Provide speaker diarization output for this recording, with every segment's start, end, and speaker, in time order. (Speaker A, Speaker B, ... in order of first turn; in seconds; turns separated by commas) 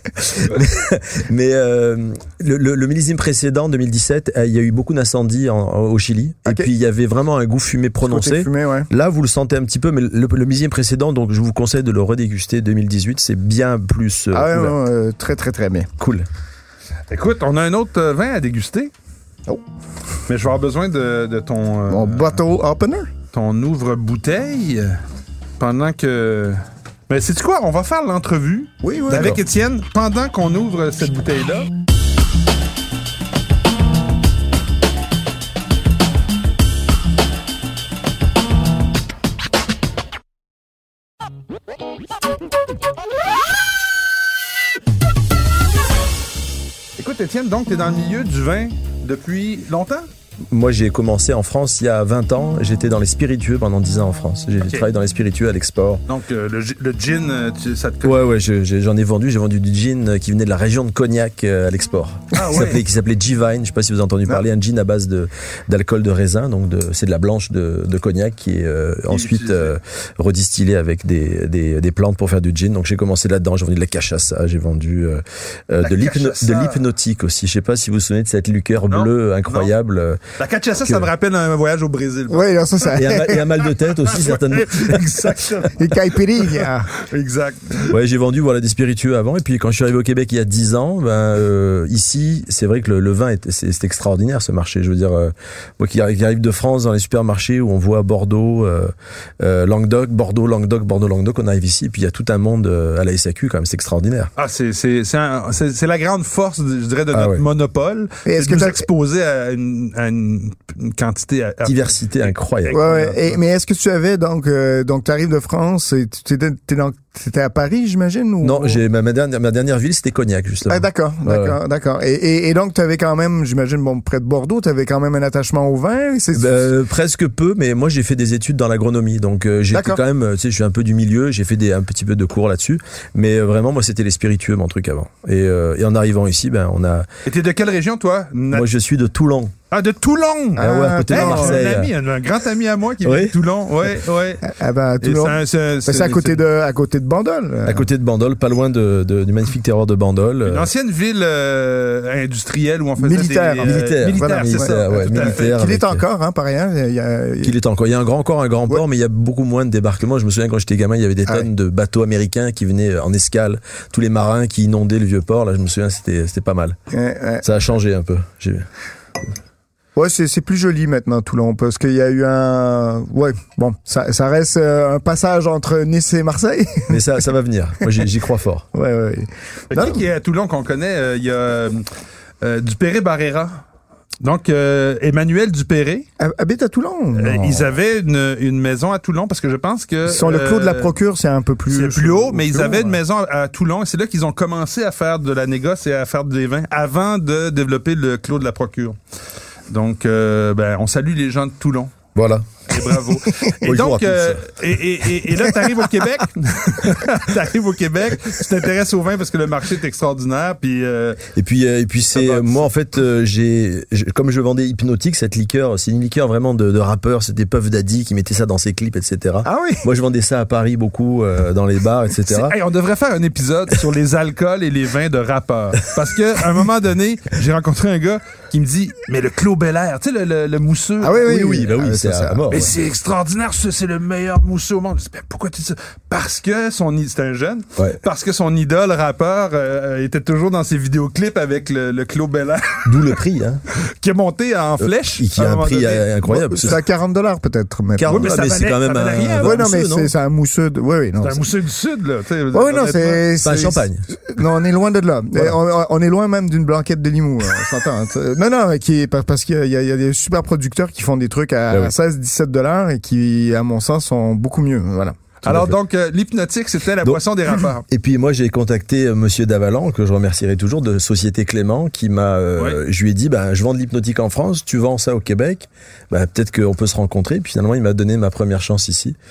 Speaker A: 0.2-14.8, Speaker B: 8.0-8.9, Speaker B: 14.3-15.9, Speaker A: 16.0-16.2, Speaker C: 17.1-18.9, Speaker C: 20.3-22.4, Speaker B: 21.9-23.1, Speaker C: 23.3-25.0, Speaker C: 25.6-31.7, Speaker B: 28.8-29.4, Speaker C: 47.0-50.1, Speaker A: 50.5-56.0, Speaker C: 56.1-58.2, Speaker A: 58.0-80.2, Speaker C: 62.3-62.8, Speaker C: 69.1-69.7, Speaker C: 75.8-76.8, Speaker C: 78.9-79.7, Speaker C: 80.4-83.0, Speaker B: 82.3-83.5, Speaker A: 82.9-85.2, Speaker C: 84.0-85.9, Speaker B: 85.7-86.9, Speaker C: 86.5-87.9, Speaker A: 87.9-104.3, Speaker C: 104.4-113.3, Speaker A: 107.1-107.4, Speaker B: 108.2-108.8, Speaker A: 111.6-112.9, Speaker B: 112.7-118.8, Speaker A: 118.4-121.6, Speaker B: 120.7-126.7, Speaker A: 126.3-137.1, Speaker B: 129.7-130.0, Speaker C: 137.2-138.7, Speaker A: 138.5-139.5, Speaker C: 139.7-144.5, Speaker B: 140.6-141.7, Speaker A: 140.6-141.9, Speaker A: 143.0-143.3, Speaker B: 144.4-147.9, Speaker C: 145.0-146.4, Speaker A: 147.7-150.7, Speaker C: 150.4-155.5, Speaker B: 153.0-157.5, Speaker A: 153.6-156.0, Speaker A: 157.4-166.8, Speaker B: 166.9-167.4, Speaker A: 167.4-168.7, Speaker B: 169.9-177.0, Speaker A: 176.9-178.7, Speaker B: 178.7-180.0, Speaker C: 179.7-181.8, Speaker C: 182.4-183.6, Speaker C: 184.2-186.1, Speaker B: 186.2-187.7, Speaker C: 187.2-190.9, Speaker B: 190.1-193.0, Speaker C: 191.7-199.0, Speaker C: 199.7-202.0, Speaker A: 202.1-202.6, Speaker C: 202.7-211.2, Speaker A: 203.6-204.4, Speaker A: 211.3-222.6, Speaker C: 212.1-212.6, Speaker B: 219.4-219.8, Speaker C: 222.3-231.4, Speaker B: 231.0-232.7, Speaker A: 231.2-232.7, Speaker C: 232.5-243.2, Speaker A: 242.8-243.6, Speaker C: 243.7-246.1, Speaker A: 244.8-246.8, Speaker B: 246.3-248.5, Speaker A: 248.0-250.1, Speaker C: 248.1-249.6, Speaker B: 249.4-251.5, Speaker C: 251.2-253.3, Speaker B: 252.5-265.2, Speaker A: 253.4-254.1, Speaker A: 265.4-265.7, Speaker C: 265.4-267.8, Speaker A: 267.9-279.1